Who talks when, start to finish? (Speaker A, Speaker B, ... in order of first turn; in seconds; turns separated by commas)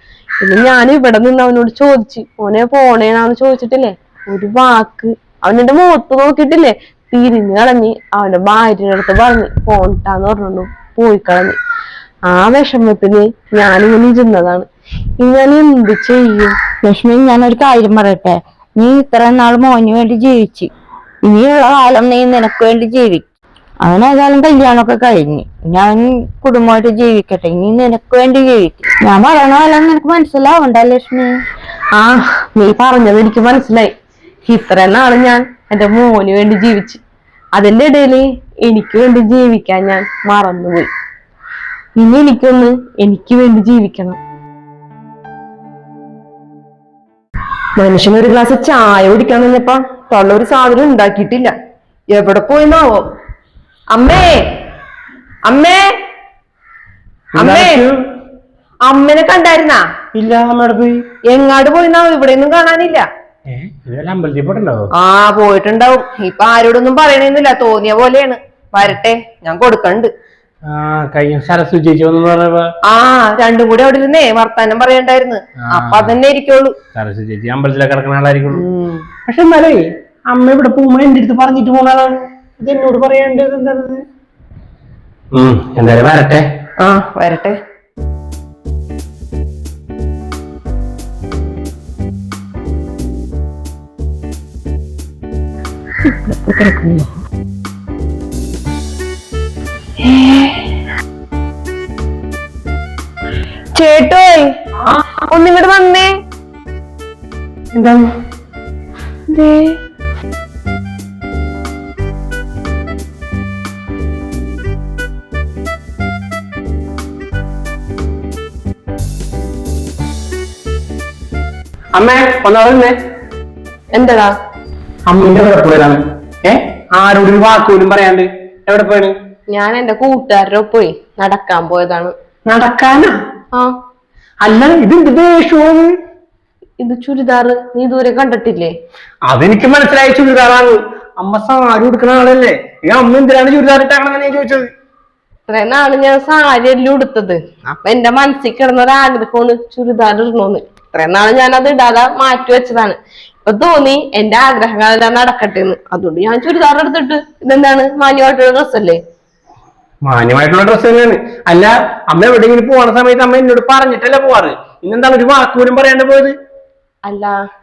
Speaker A: 0.4-11.6, Speaker A: 12.3-14.7, Speaker A: 15.2-16.6, Speaker B: 16.8-20.7, Speaker B: 21.3-23.3, Speaker B: 23.8-31.3, Speaker A: 31.9-33.9, Speaker A: 34.5-37.0, Speaker A: 37.6-40.9, Speaker A: 42.0-44.2, Speaker C: 47.8-51.5, Speaker C: 52.1-53.0, Speaker C: 53.9-54.4, Speaker C: 55.5-55.9, Speaker D: 57.4-57.9, Speaker C: 57.4-57.8, Speaker C: 58.9-59.8, Speaker D: 60.1-61.0, Speaker C: 61.3-63.1, Speaker D: 63.5-64.9, Speaker C: 65.0-70.1, Speaker D: 70.7-72.7, Speaker C: 72.9-76.7, Speaker D: 75.6-76.2, Speaker D: 77.0-78.6, Speaker C: 78.5-79.1, Speaker D: 79.3-84.0, Speaker D: 85.3-86.4, Speaker C: 86.8-87.6, Speaker C: 96.2-97.0, Speaker C: 100.0-100.7, Speaker C: 103.8-104.5, Speaker C: 105.2-106.1, Speaker C: 109.3-109.8, Speaker D: 122.0-122.9, Speaker A: 123.9-124.3, Speaker D: 125.1-129.1, Speaker A: 129.5-132.1, Speaker D: 132.5-133.1, Speaker D: 134.4-135.9, Speaker A: 136.8-138.7, Speaker D: 139.3-144.7, Speaker A: 145.5-159.0, Speaker D: 160.1-166.3, Speaker A: 167.1-167.3